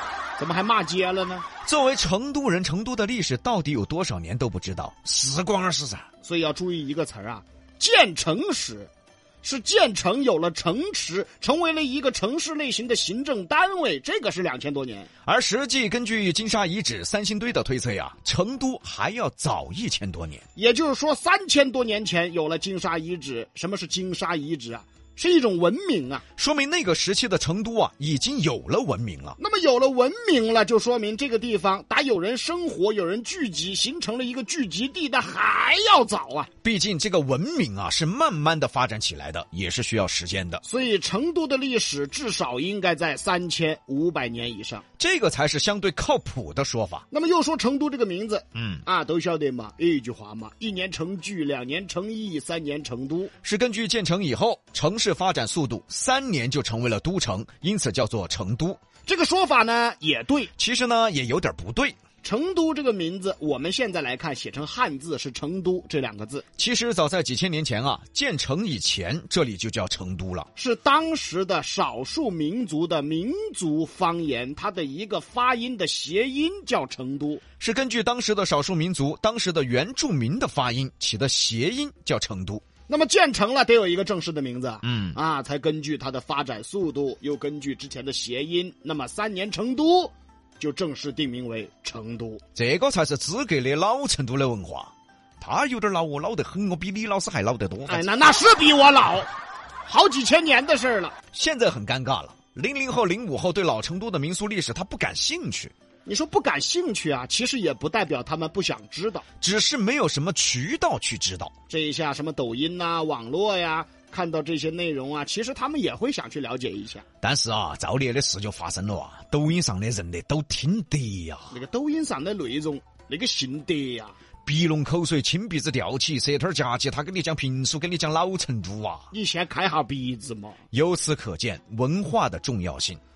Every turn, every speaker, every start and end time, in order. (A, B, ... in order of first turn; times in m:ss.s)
0:00.4-0:01.4 A
0:01.6-0:06.0 B
0:06.2-0:08.9 A
0:09.4-0:15.1 A
0:15.2-0:20.4 B
0:20.6-0:26.2 A
0:26.4-0:29.4 B
0:29.4-0:36.5 A
0:36.6-0:40.6 B
0:40.6-0:44.8 A
0:45.0-0:47.0 B
0:47.1-0:53.3 A
0:48.5-0:48.8 B
0:53.4-0:58.8 B
0:59.0-1:00.5 A
1:00.6-1:02.0 B
1:02.2-1:06.4 A
1:06.6-1:10.5 B
1:10.6-1:17.4 A
1:17.6-1:22.6 B
1:22.9-1:32.4 A
1:24.8-1:25.2 B
1:32.5-1:38.1 B
1:37.9-1:39.3 A
1:39.8-1:41.1 A
1:41.3-1:45.7 B
1:46.0-1:49.2 A
1:49.4-1:51.5 B
1:51.7-1:57.0 A
1:57.2-2:01.5 B
2:01.5-2:04.1 A
2:04.4-2:09.1 B
2:09.1-2:10.6 A
2:10.7-2:13.0 B